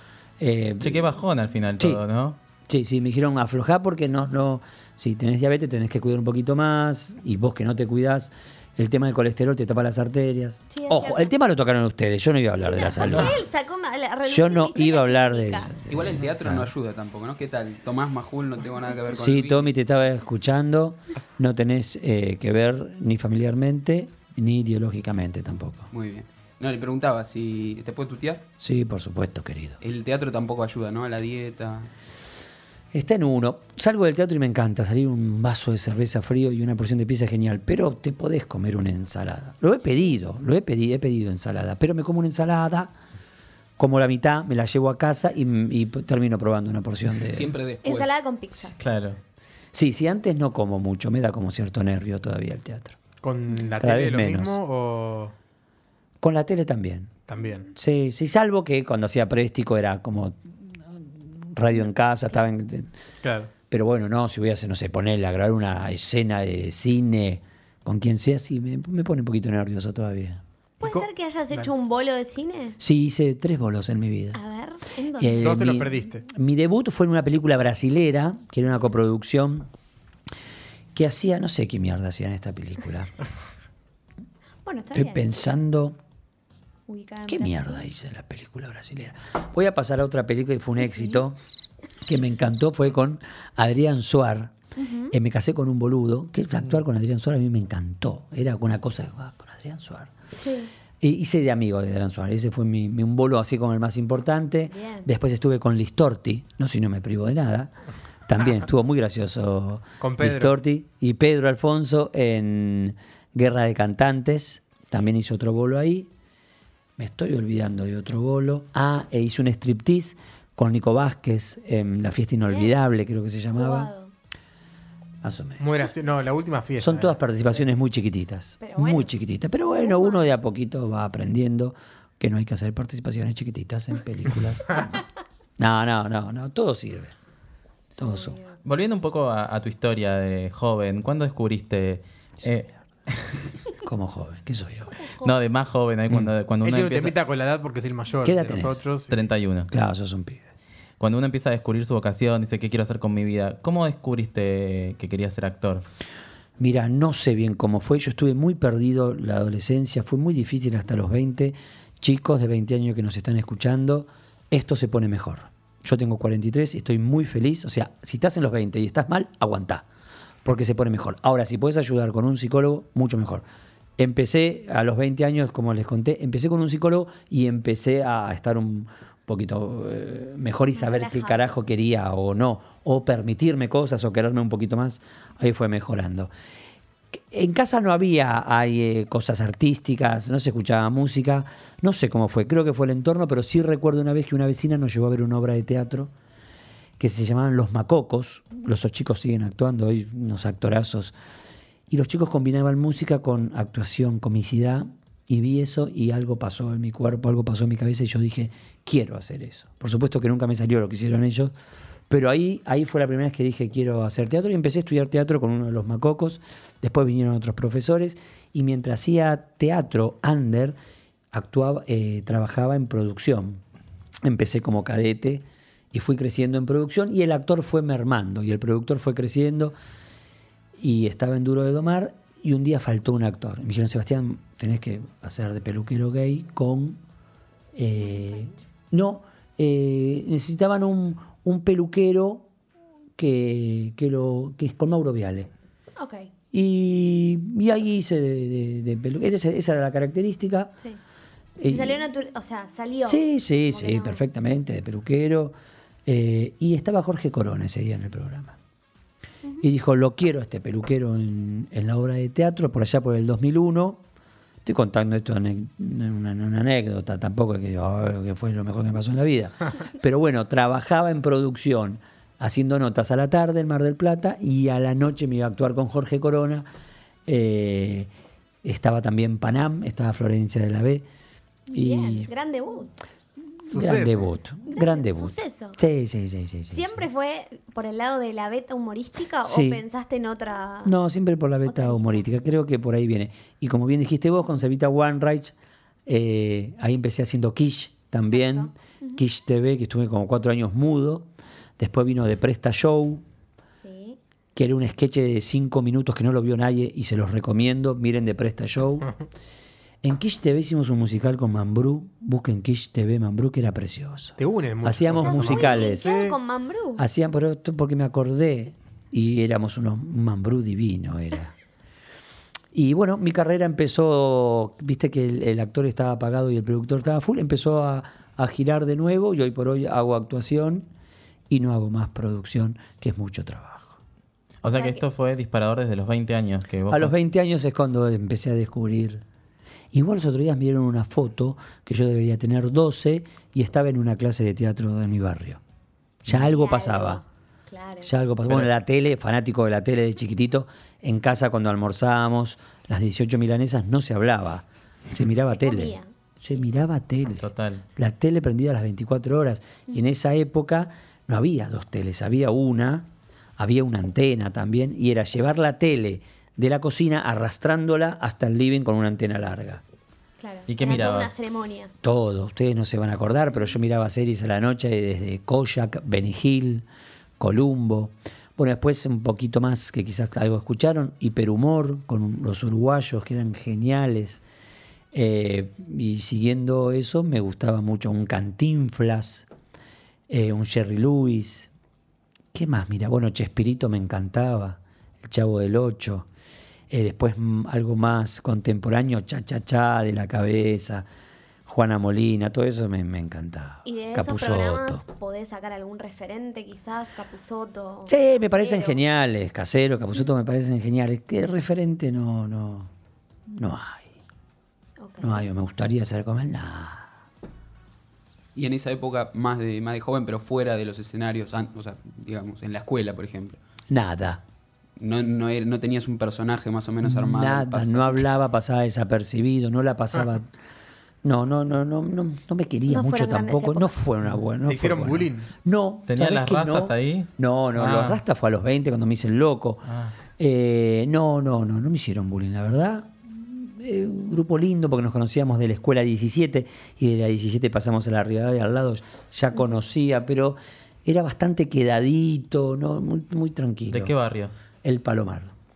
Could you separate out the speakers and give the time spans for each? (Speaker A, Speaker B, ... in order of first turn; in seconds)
Speaker A: 0.4-1.2, 2.6-13.4, 14.2-16.7, 19.1-25.9, 28.6-29.8, 32.9-43.0, 43.8-47.6, 49.7-53.0, 53.8-54.6, 56.2-57.1, 57.7-62.9, 63.7-70.4, 72.8-74.4, 75.2-79.7, 81.0-83.1, 84.9-86.0, 87.3-91.4, 92.0-94.5, 95.1-100.1, 101.0-107.7, 108.3-116.1, 117.0-123.9, 125.2-125.7, 126.8-135.0, 135.6-137.2, 138.0-138.4, 143.8-145.0, 148.2-148.8, 149.7-150.5, 156.6-169.9, 170.4-173.5, 174.0-186.3, 187.1-196.1, 197.0-201.2, 201.9-211.6, 212.1-220.8, 221.3-223.6, 224.2-229.8, 230.8-237.0, 237.7-242.5, 243.2-245.5, 246.5-250.8, 251.6-252.0, 253.1-255.6, 256.1-258.6, 259.6-264.0, 264.6-276.7, 277.3-278.1, 278.6-281.1, 281.7-282.3, 283.6-287.0, 289.4-289.8, 290.8-295.5, 296.1-303.2, 304.6-309.1, 310.0-316.2, 317.0-321.5, 322.7-330.9, 331.5-334.0, 336.9-339.2, 339.9-345.6, 346.3-347.2, 348.0-369.8, 372.0-376.9, 377.4-384.4, 385.1-389.5, 390.3-391.7, 392.5-396.3, 396.9-401.1, 401.7-405.0, 408.1-412.9, 413.5-414.1, 415.2-417.1, 423.9-424.4, 427.0-430.5, 431.2-454.1, 454.8-455.5
Speaker B: 0.8-2.4, 48.8-49.2, 138.7-143.5, 145.2-147.2, 149.1-149.7, 151.0-155.9, 334.6-337.1, 357.4-357.9, 370.7-371.3, 436.1-438.2, 439.9-440.1, 453.9-454.5
Speaker C: 10.7-11.3, 12.6-15.7, 47.8-48.8, 70.8-72.8, 74.3-75.6, 84.7-85.3, 86.9-87.8, 90.8-91.2, 94.8-95.2, 100.4-100.7, 104.7-105.1, 122.5-122.7, 123.5-124.1, 128.6-129.1, 129.7-130.2, 138.0-138.6, 145.0-145.3, 180.7-181.5, 246.0-246.3, 251.6-254.2, 281.7-283.0, 284.7-285.8, 286.7-290.9, 291.7-292.3, 298.3-299.2, 303.8-304.2, 315.2-317.0, 334.6-335.0, 346.3-348.1, 355.5-356.1, 370.4-371.9, 403.9-409.0, 415.0-415.4, 432.9-433.9
Speaker D: 15.9-19.7, 25.9-28.4, 29.8-31.9, 47.2-48.1, 418.6-423.6, 425.0-428.2
Speaker E: 53.2-55.3, 57.3-57.7, 63.2-63.5, 70.8-71.7, 75.4-76.2, 110.0-110.6, 125.6-127.2, 146.6-149.2, 283.7-284.3, 314.4-316.4, 434.7-435.5